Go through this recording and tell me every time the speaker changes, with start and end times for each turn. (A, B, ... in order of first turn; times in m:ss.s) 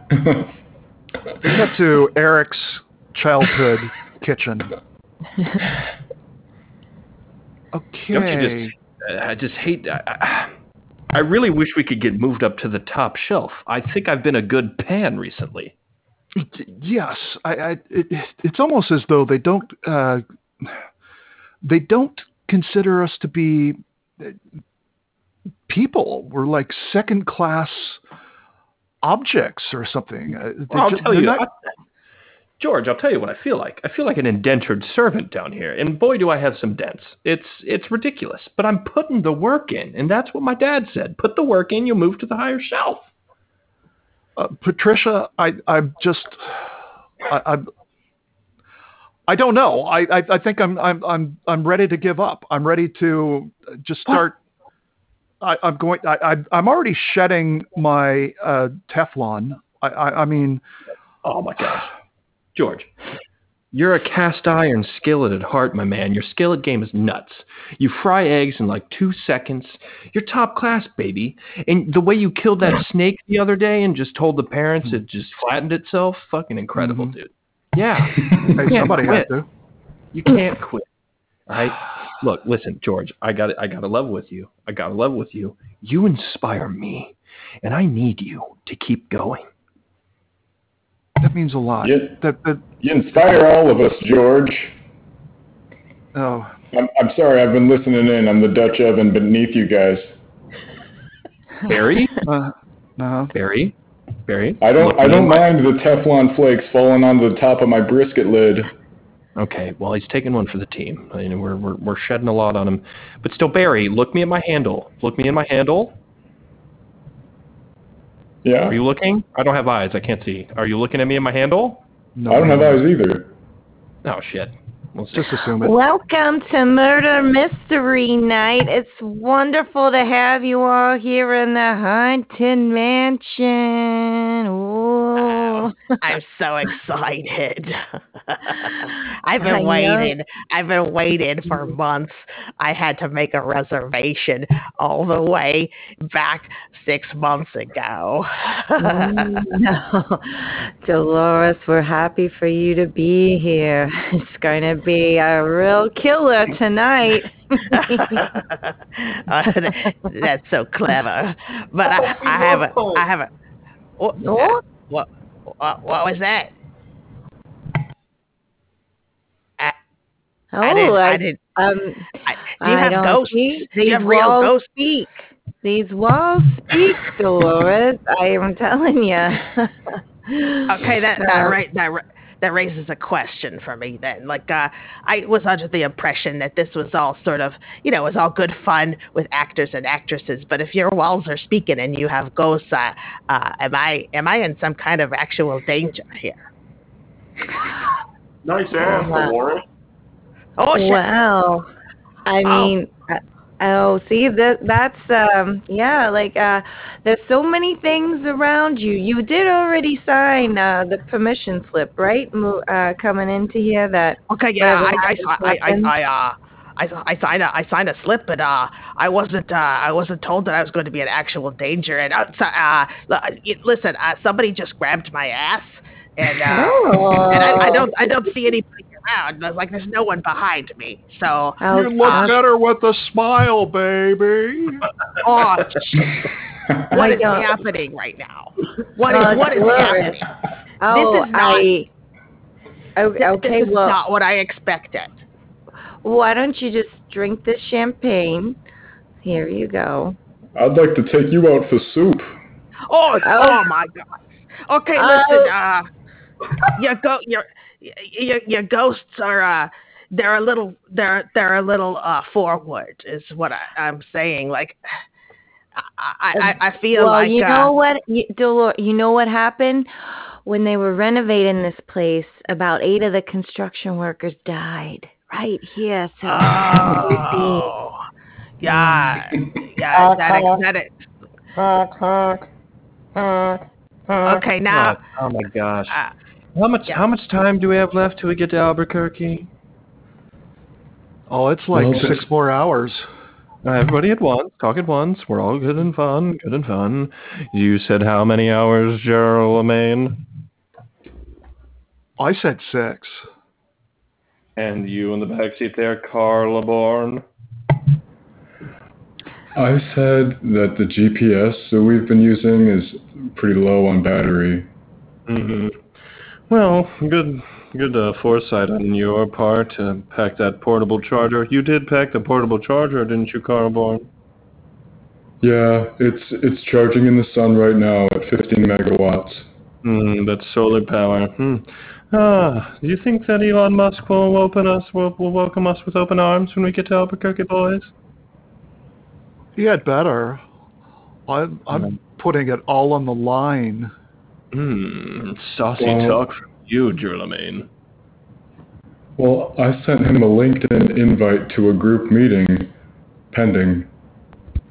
0:00.1-0:00.5 A
0:01.4-0:04.7 B
0:07.7-0:08.7 B
0:08.1-0:10.5 C
0:11.1-0:15.7 C
0:16.4-0:20.8 B
0:21.6-0:24.4 B
0:25.7-0:28.0 B
0:29.0-0:31.4 B
0:30.7-0:31.5 C
0:32.6-0:43.1 C
0:44.4-0:46.6 B
0:47.3-0:47.7 B
0:49.3-0:54.4 B
0:55.4-1:00.6 B
1:01.2-1:01.9 C
1:02.6-1:02.9 C
1:03.7-1:19.3 C
1:16.8-1:17.1 B
1:18.6-1:19.5 B
1:20.1-1:20.8 C
1:21.5-1:29.5 C
1:31.2-1:33.3 B
1:31.8-1:32.2 A
1:32.8-1:34.8 A
1:36.1-1:36.5 B
1:36.7-1:40.2 A
1:41.7-1:42.2 C
1:42.2-1:43.3 B
1:43.3-1:43.8 C
1:44.3-1:45.5 C
1:44.6-1:48.7 A
1:49.4-1:56.0 C
1:58.4-1:58.8 A
1:58.7-2:01.8 C
2:02.2-2:02.8 B
2:02.3-2:03.3 A
2:04.0-2:05.4 C
2:05.1-2:05.8 B
2:05.6-2:16.0 D
2:15.2-2:29.6 E
2:19.4-2:20.2 D
2:28.8-2:38.2 D
2:37.7-2:43.3 E
2:41.8-2:43.1 C
2:44.0-2:46.5 E
2:44.2-2:44.6 D
2:50.5-2:55.1 D
2:50.6-2:51.4 E
2:52.3-2:55.0 E
2:55.6-3:01.6 D
3:00.7-3:16.5 E
3:18.4-3:19.6 C
3:18.8-3:19.4 D
3:20.6-3:21.1 E
3:20.7-3:21.7 D
3:22.3-3:35.9 D
3:22.4-3:22.7 E
3:34.3-3:52.4 E
3:46.4-3:47.9 D
3:51.6-3:52.4 D
3:51.7-3:54.9 B
3:55.2-3:56.2 E
3:56.9-4:00.3 E
3:56.9-3:57.6 D
3:59.0-4:00.2 D
4:00.8-4:01.9 D
4:00.9-4:01.7 E
4:03.0-4:04.0 D
4:03.2-4:05.2 E
4:06.0-4:08.6 D
4:09.2-4:10.2 D
4:10.6-4:12.4 A
4:12.9-4:14.0 E
4:13.2-4:13.7 D
4:14.7-4:15.9 E
4:15.0-4:15.6 D
4:16.6-4:24.8 E
4:25.8-4:27.7 E
4:26.4-4:37.7 D
4:36.2-4:38.0 E
4:38.6-4:40.9 E
4:39.9-4:40.6 C
4:41.6-4:42.5 C
4:43.2-4:46.0 C
4:44.2-4:45.0 E
4:46.6-4:49.5 C
4:51.3-4:53.1 B
4:51.7-4:52.3 A
4:53.6-5:00.2 C
5:02.2-5:03.2 B
5:04.6-5:07.2 C
5:09.6-5:14.7 A
5:15.3-5:15.8 C
5:16.5-5:24.1 C
5:25.4-5:29.5 A
5:29.8-5:37.9 C
5:39.6-5:40.4 B
5:41.3-5:43.9 B
5:44.5-5:47.7 C
5:45.8-5:46.2 A
5:49.2-5:52.7 A
5:53.3-5:53.9 A